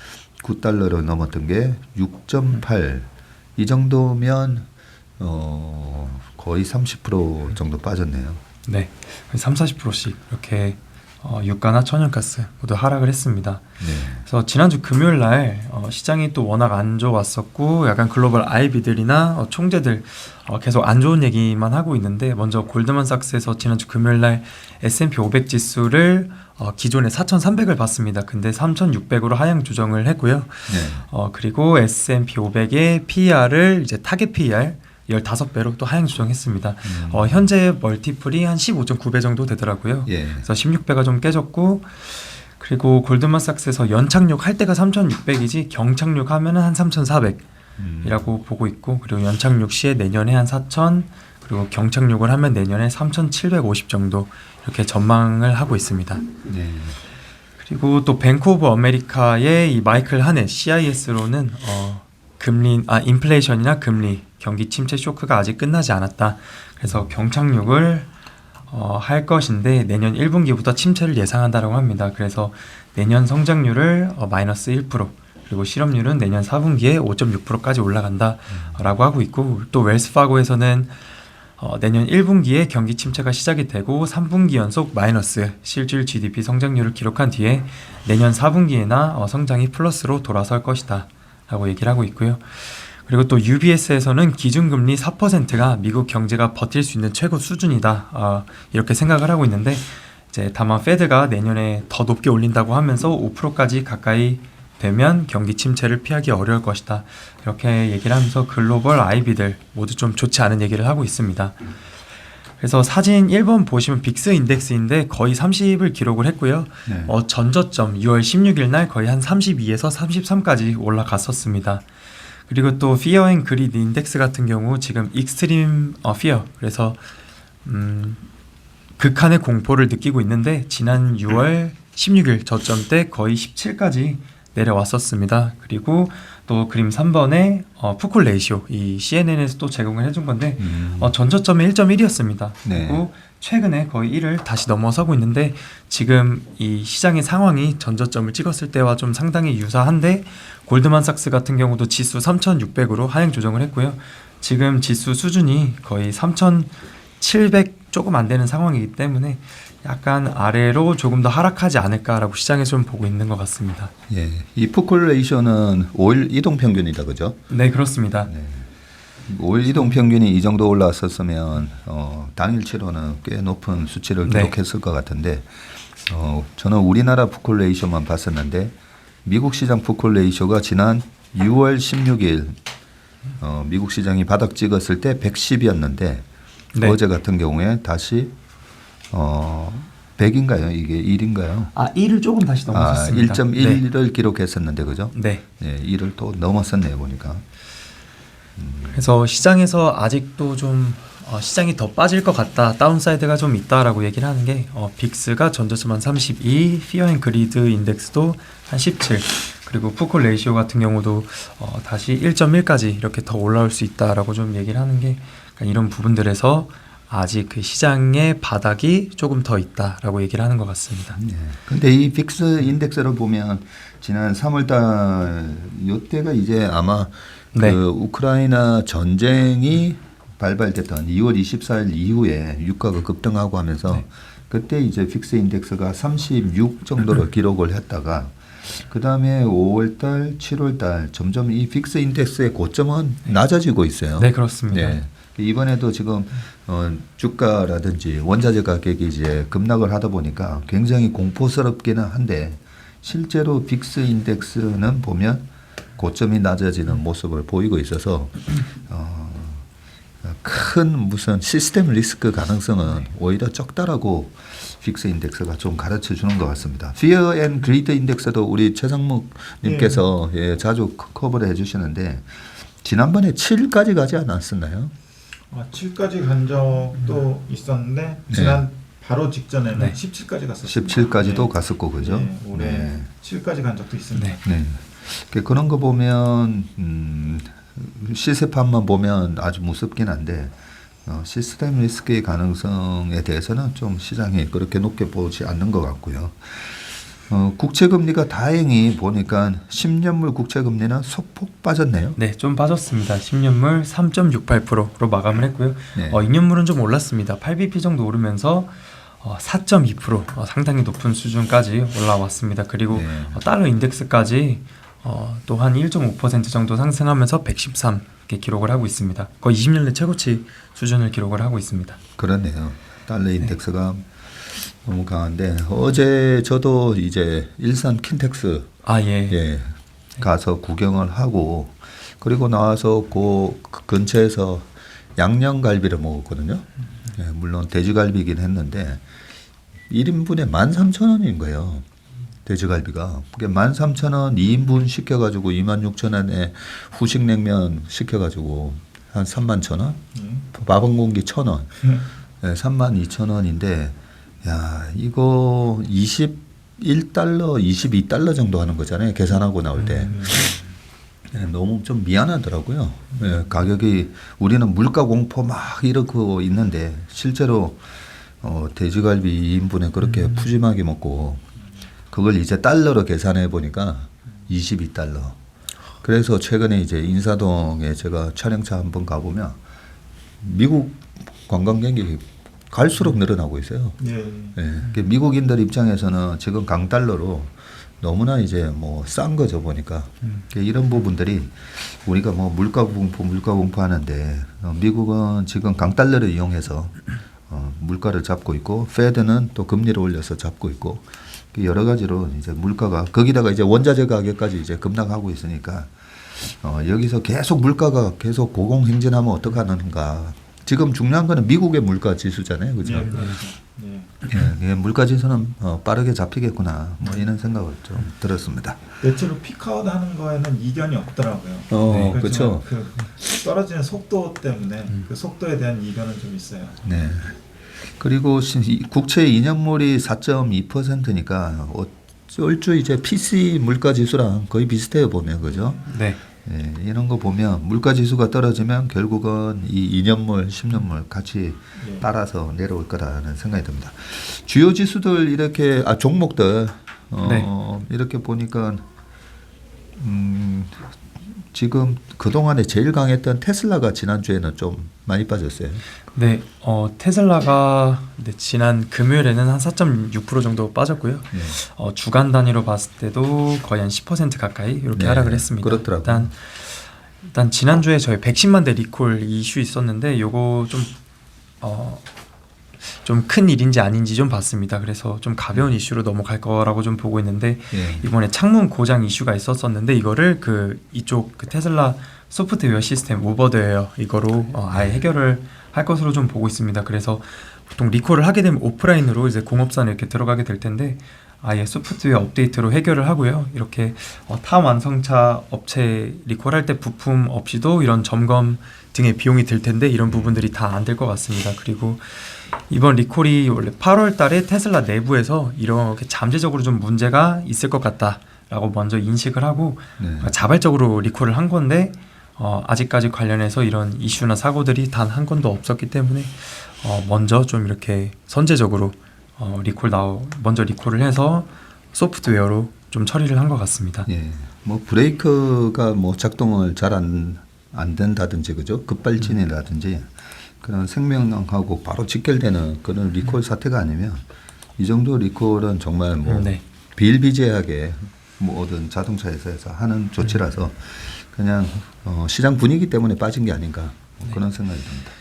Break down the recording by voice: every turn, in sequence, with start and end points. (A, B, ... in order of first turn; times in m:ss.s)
0:00.4-0:08.4 A
0:08.6-0:13.6 B
0:13.8-0:14.2 A
0:14.2-0:47.4 B
0:30.7-0:31.1 A
0:36.8-0:37.5 A
0:40.1-0:40.5 A
0:47.8-0:48.2 A
0:48.0-0:56.3 B
0:56.4-0:57.0 A
0:57.6-1:08.1 B
1:06.8-1:07.1 A
1:08.7-1:21.0 B
1:18.5-1:18.8 A
1:21.6-1:51.7 B
1:52.6-2:01.8 B
1:56.8-1:57.1 A
2:02.5-2:07.0 B
2:07.6-2:08.2 B
2:09.0-2:43.9 B
2:20.6-2:21.1 A
2:22.6-2:23.0 A
2:44.1-2:47.4 A
2:47.5-2:48.3 B
2:48.3-2:48.7 A
2:49.2-3:02.6 A
2:54.2-2:54.5 B
3:03.4-3:06.2 A
3:06.8-3:08.3 A
3:09.1-3:11.7 A
3:11.7-3:13.8 B
3:12.7-3:17.4 A
3:15.1-3:15.4 B
3:18.6-3:19.0 A
3:18.9-3:41.2 B
3:41.2-4:15.4 A
3:47.5-3:47.8 B
4:04.2-4:05.0 B
4:16.0-4:19.6 A
4:20.2-4:34.9 A
4:29.6-4:30.0 C
4:35.5-4:44.4 C
4:38.3-4:38.6 A
4:40.6-4:43.1 A
4:44.4-5:02.2 A
5:02.2-5:22.0 B
5:05.9-5:06.2 A
5:12.9-5:13.4 A
5:22.2-5:28.7 A
5:28.8-5:29.4 B
5:29.3-5:39.0 A
5:39.9-5:41.8 A
5:42.4-5:50.0 A
5:50.1-5:50.5 C
5:50.5-5:51.8 A
5:52.4-6:00.5 A
6:00.1-6:00.5 C
6:01.3-6:07.8 A
6:08.4-6:11.4 A
6:12.1-6:15.4 A
6:16.0-6:19.6 A
6:20.4-6:24.0 A
6:24.0-6:24.6 C
6:24.5-6:53.3 A
6:52.8-6:54.2 C
6:54.2-6:58.9 A
6:59.0-7:06.8 C
7:01.7-7:02.6 A
7:01.9-7:02.2 B
7:06.8-7:07.4 A
7:08.0-7:15.8 A
7:15.5-7:15.8 C
7:15.8-7:16.2 B
7:16.4-7:28.8 A
7:21.8-7:22.0 C
7:27.2-7:27.5 B
7:29.9-7:35.8 A
7:36.1-7:50.9 B
7:41.3-7:41.6 A
7:44.9-7:46.3 A
7:51.6-7:52.0 B
7:52.9-8:44.1 B
7:57.7-7:58.1 A
8:04.7-8:05.0 A
8:20.1-8:20.4 A
8:30.0-8:30.3 A
8:44.1-8:54.2 A
8:54.8-9:05.1 A
8:56.2-8:56.6 B